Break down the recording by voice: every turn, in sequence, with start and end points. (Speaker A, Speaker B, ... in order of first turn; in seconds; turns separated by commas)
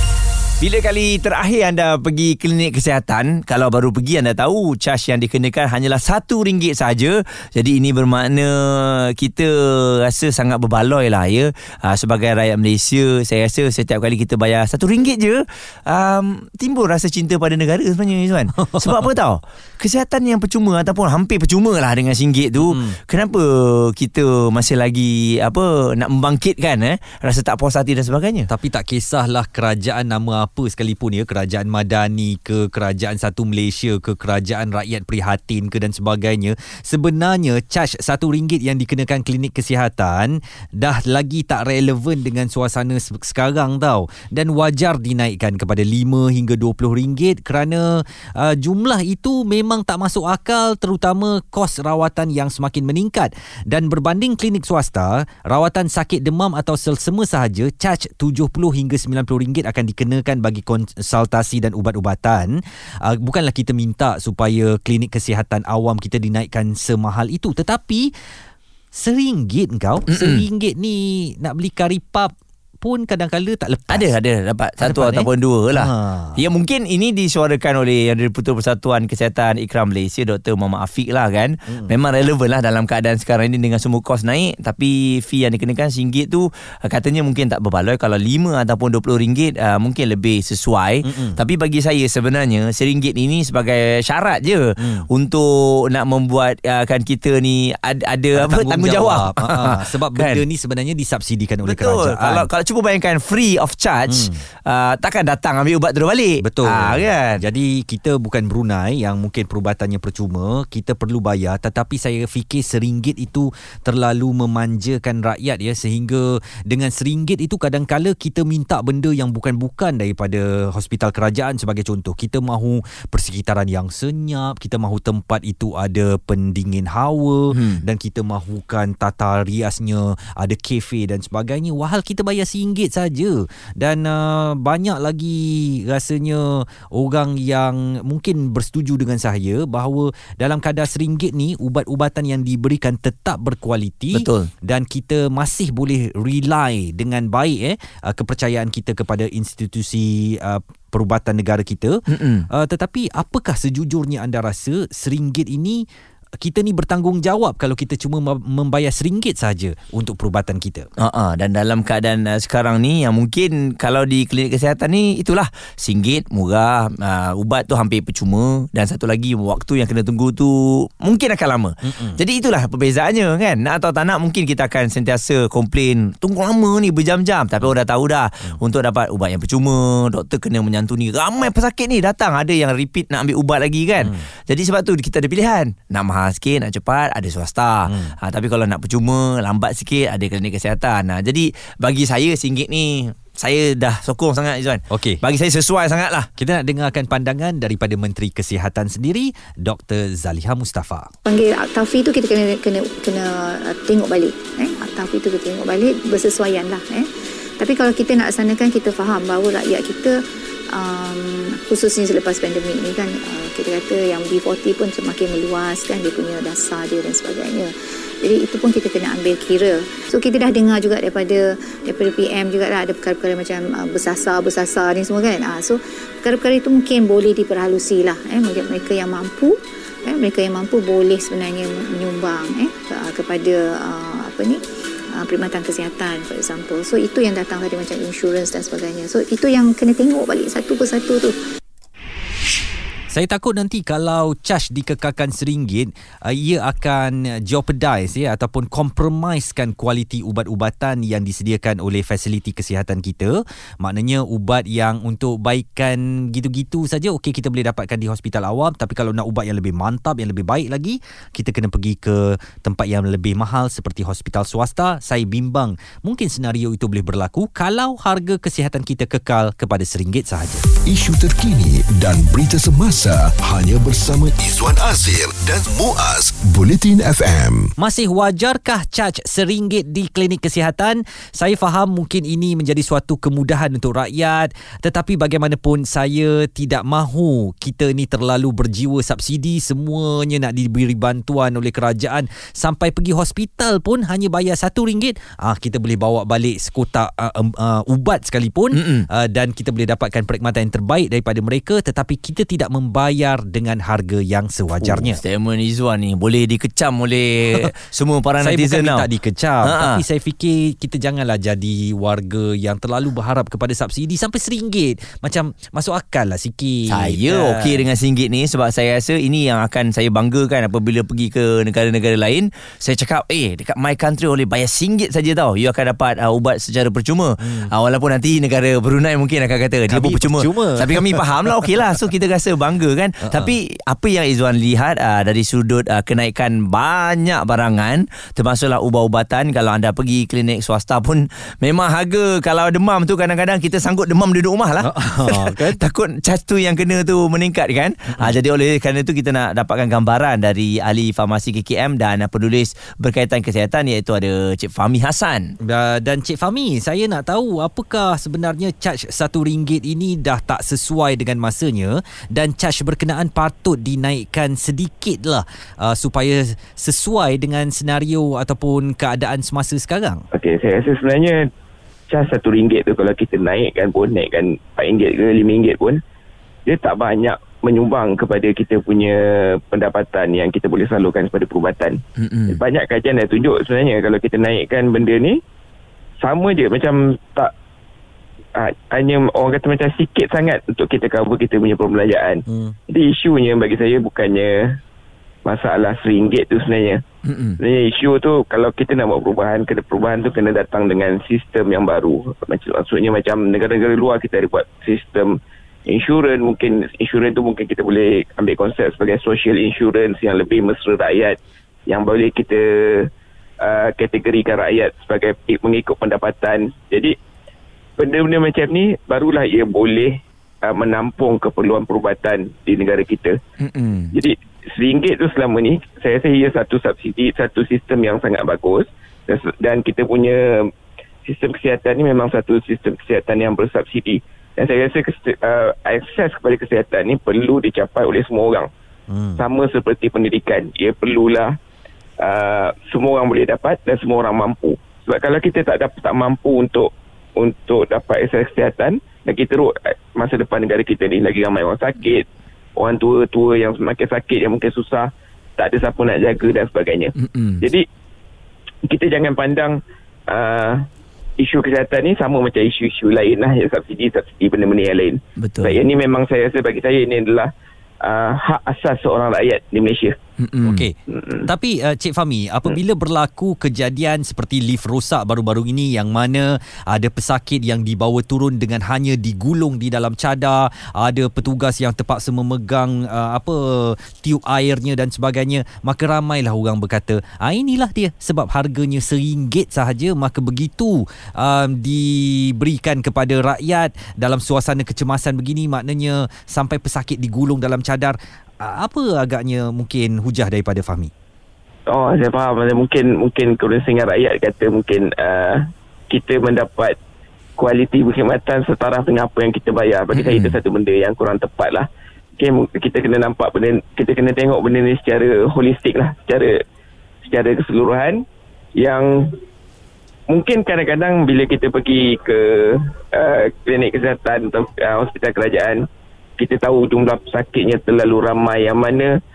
Speaker A: 0.6-28.5, Speaker B: 18.6-18.9, Speaker B: 22.6-22.9, Speaker B: 28.5-68.1, Speaker B: 69.0-74.1, Speaker A: 70.1-70.4, Speaker A: 73.9-100.4, Speaker B: 74.8-76.4, Speaker B: 81.7-81.9, Speaker B: 91.0-91.4, Speaker B: 94.8-95.1, Speaker B: 98.4-102.5, Speaker A: 101.7-107.4, Speaker B: 104.1-104.4, Speaker B: 106.4-155.8, Speaker A: 127.5-127.8, Speaker A: 144.1-144.5, Speaker A: 152.1-152.5, Speaker B: 156.4-160.9, Speaker A: 161.0-196.3, Speaker B: 171.8-172.2, Speaker B: 187.9-188.2, Speaker B: 194.9-195.2, Speaker B: 196.4-201.1, Speaker C: 201.3-234.6, Speaker C: 235.2-241.4, Speaker B: 243.1-270.7, Speaker D: 270.9-277.7, Speaker B: 277.8-305.2, Speaker A: 298.7-299.1, Speaker A: 304.8-309.1, Speaker B: 308.4-317.8, Speaker A: 309.6-310.0, Speaker A: 316.9-355.6, Speaker B: 327.4-327.7, Speaker B: 329.9-331.7, Speaker B: 333.2-333.5, Speaker B: 344.8-345.8, Speaker B: 355.6-370.2, Speaker E: 370.3-371.5, Speaker E: 372.1-376.0, Speaker E: 376.7-385.4, Speaker A: 382.2-382.6, Speaker E: 386.2-387.5, Speaker E: 388.6-394.8, Speaker B: 392.5-392.7, Speaker E: 395.4-397.0, Speaker A: 397.2-397.6, Speaker E: 397.6-413.1, Speaker E: 413.6-417.1, Speaker E: 418.0-423.4, Speaker A: 423.6-424.1, Speaker E: 424.1-430.7, Speaker E: 431.2-438.7, Speaker B: 439.1-439.4, Speaker E: 439.4-441.6, Speaker E: 442.2-452.3, Speaker E: 452.8-457.8, Speaker A: 457.2-457.6, Speaker E: 458.9-460.9, Speaker E: 461.4-467.5, Speaker A: 465.4-465.8, Speaker E: 468.0-470.2, Speaker A: 470.4-470.8, Speaker B: 470.6-471.0, Speaker E: 471.1-471.4, Speaker B: 471.5-501.1, Speaker E: 501.9-507.0, Speaker E: 507.6-511.9, Speaker A: 510.1-510.6, Speaker E: 512.4-516.6, Speaker E: 517.2-518.2, Speaker E: 518.8-519.4, Speaker E: 520.3-525.9, Speaker E: 526.4-529.2